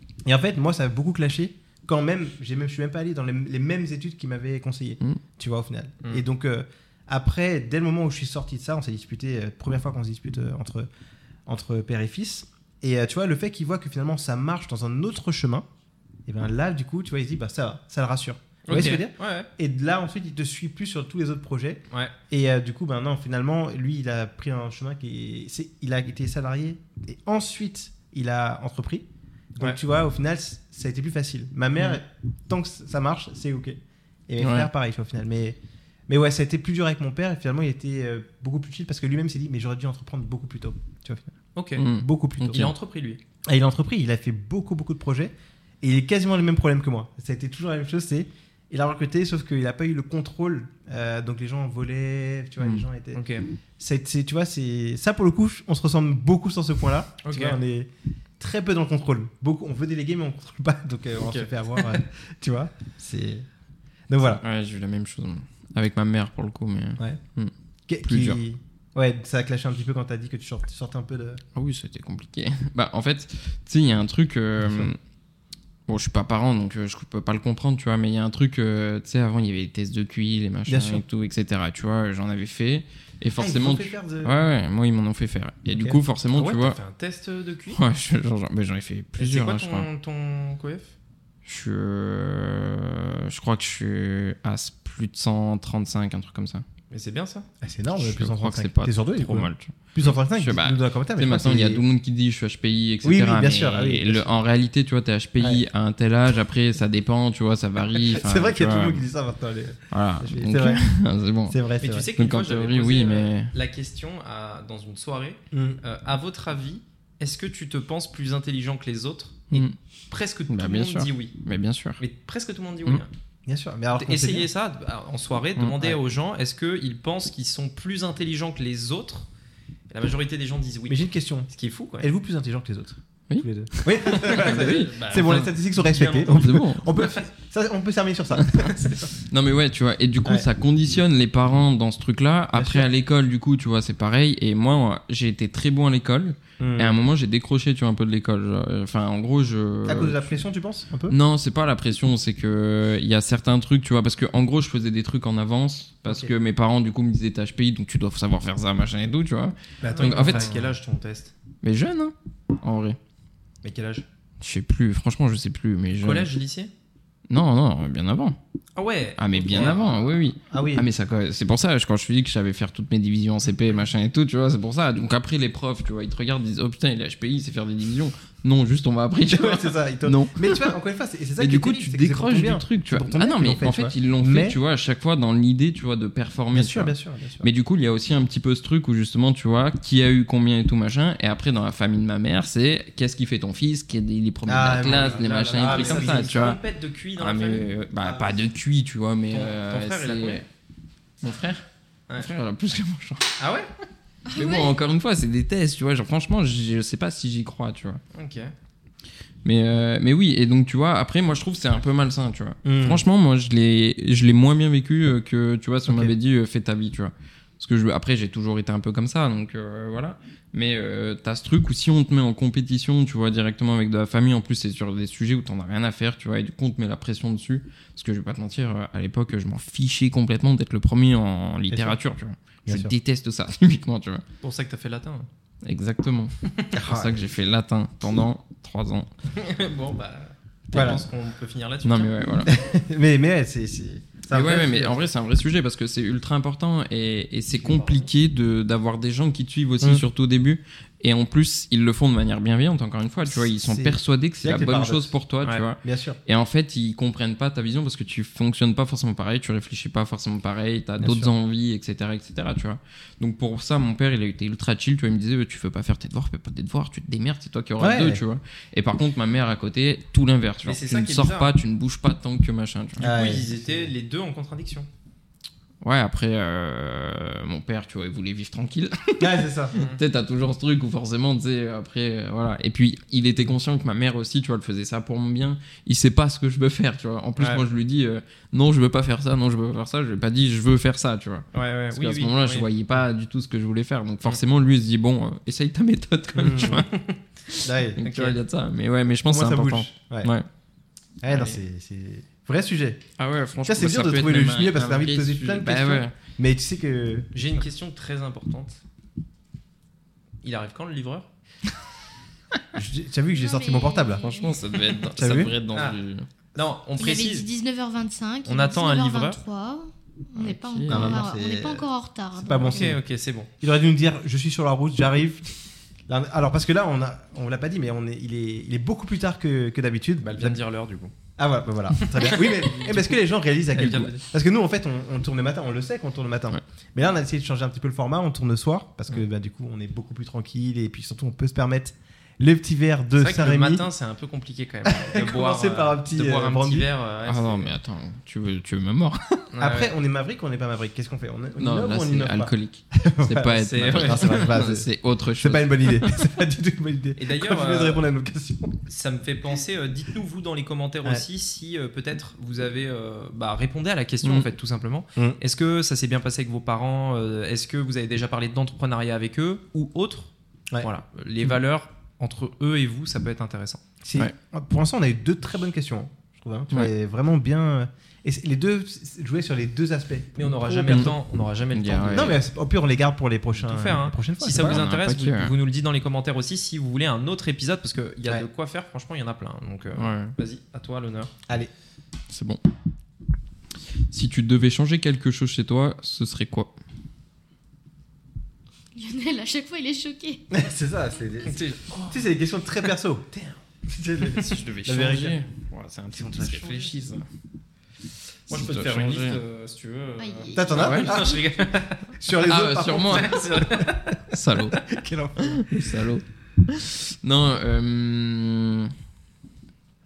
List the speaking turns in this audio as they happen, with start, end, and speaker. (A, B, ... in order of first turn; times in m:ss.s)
0:00.2-0:10.9 A
0:11.4-0:15.6 A
0:16.2-0:33.8 A
0:18.7-0:19.5 B
0:34.3-0:41.3 A
0:34.4-0:34.7 C
0:41.5-0:41.8 B
0:41.8-0:42.7 C
0:41.9-0:42.7 A
0:42.5-0:43.2 B
0:43.4-0:53.2 A
0:52.6-0:52.8 C
0:53.1-0:53.4 B
0:53.8-1:03.4 A
0:57.2-0:57.6 B
1:01.2-1:02.0 B
1:04.1-1:04.4 A
1:04.4-1:07.5 C
1:07.9-1:11.4 A
1:08.0-1:08.4 C
1:11.5-1:15.0 C
1:14.6-1:14.9 A
1:15.9-1:26.8 C
1:20.7-1:21.0 A
1:23.4-1:24.4 A
1:25.7-1:26.0 A
1:26.3-1:27.8 B
1:27.7-1:29.9 C
1:29.2-1:30.9 B
1:31.4-1:36.6 C
1:36.9-1:37.5 B
1:37.6-1:41.8 A
1:38.0-1:49.0 C
1:43.0-1:44.3 A
1:47.9-1:50.8 A
1:49.9-1:51.6 C
1:51.5-1:52.1 A
1:51.8-2:01.3 B
1:52.2-1:53.5 C
1:55.5-1:55.8 A
2:00.5-2:02.0 C
2:02.0-2:03.1 B
2:03.4-2:04.5 A
2:03.9-2:09.3 B
2:09.9-2:12.1 B
2:10.9-2:19.1 A
2:13.3-2:15.5 C
2:14.1-2:16.5 B
2:16.3-2:16.9 C
2:18.4-2:18.6 C
2:19.2-2:30.3 C
2:22.5-2:22.9 A
2:26.6-2:27.0 A
2:29.8-2:31.2 A
2:31.1-2:40.6 C
2:36.0-2:36.3 A
2:39.8-2:40.7 A
2:39.9-2:41.3 B
2:41.6-2:43.0 C
2:43.6-2:44.0 B
2:44.4-2:46.3 C
2:46.0-2:46.7 B
2:47.3-2:48.4 C
2:48.8-2:49.8 B
2:49.2-3:00.7 C
2:49.5-2:50.9 A
2:59.2-3:04.6 A
3:01.4-3:16.6 C
3:06.5-3:07.5 A
3:14.4-3:16.4 A
3:14.8-3:18.3 B
3:17.2-3:20.4 C
3:19.3-3:20.4 B
3:21.2-3:21.6 C
3:22.2-3:23.4 C
3:23.4-3:23.7 B
3:24.3-3:24.7 D
3:24.3-3:28.0 C
3:28.1-3:28.5 B
3:29.4-3:54.2 C
3:32.6-3:33.0 A
3:35.9-3:36.1 A
3:51.7-3:52.0 A
3:52.7-3:52.9 A
3:54.4-3:55.3 B
3:55.6-3:59.1 C
3:56.7-3:57.3 A
3:59.3-4:02.1 B
4:00.7-4:01.0 A
4:01.8-4:02.5 C
4:02.4-4:05.1 A
4:04.3-4:33.2 C
4:07.6-4:08.1 B
4:13.2-4:15.1 A
4:15.8-4:16.2 A
4:21.0-4:21.3 A
4:27.8-4:28.2 A
4:30.6-4:31.5 B
4:33.0-4:33.9 A
4:33.0-4:34.9 B
4:35.8-4:56.9 C
4:39.2-4:39.7 A
4:39.7-4:40.0 B
4:51.5-4:52.7 B
4:56.3-4:56.8 A
4:56.7-4:57.2 B
4:57.5-5:00.4 C
4:57.6-4:58.0 A
4:58.0-4:58.4 B
4:59.2-5:00.3 A
5:01.2-5:03.0 A
5:01.3-5:01.6 C
5:03.2-5:06.1 C
5:03.6-5:07.3 A
5:07.3-5:08.8 B
5:10.4-5:11.3 B
5:12.7-5:14.3 A
5:13.4-5:14.8 D
5:14.2-5:16.2 C
5:15.1-5:15.5 A
5:15.7-5:16.0 B
5:16.5-5:17.5 B
5:17.0-5:22.9 D
5:18.4-5:19.4 B
5:20.4-5:21.3 C
5:20.9-5:23.0 A
5:22.7-5:23.5 B
5:23.6-5:25.5 A
5:26.1-5:30.6 A
5:30.2-5:31.1 B
5:31.4-5:43.8 A
5:32.0-5:33.1 B
5:33.7-5:34.2 B
5:33.8-5:34.1 C
5:43.2-5:47.7 B
5:44.8-5:46.9 A
5:47.2-5:49.5 C
5:49.5-5:49.9 B
5:49.6-5:58.8 A
5:51.6-5:56.3 C
5:53.5-5:54.5 B
5:57.2-5:58.0 B
5:58.9-6:13.8 B
6:14.0-6:21.1 A
6:20.4-6:22.4 B
6:20.9-6:21.1 C
6:21.7-6:22.4 C
6:22.1-6:24.8 A
6:23.6-6:31.3 B
6:24.5-6:25.5 C
6:29.9-6:30.3 C
6:32.3-6:32.6 C
6:34.1-6:36.7 C
6:38.9-6:40.4 D
6:40.5-6:45.4 A
6:41.4-6:42.1 B
6:44.2-6:47.2 C
6:46.1-6:47.0 A
6:48.5-6:49.4 C
6:48.5-6:52.1 B
6:50.2-6:51.3 D
6:50.5-6:51.5 A
6:50.8-6:51.2 C
6:52.1-6:54.2 A
6:52.3-6:53.6 C
6:53.1-6:54.1 B
6:54.3-6:54.8 C
6:54.8-6:55.7 A
6:55.4-6:58.9 C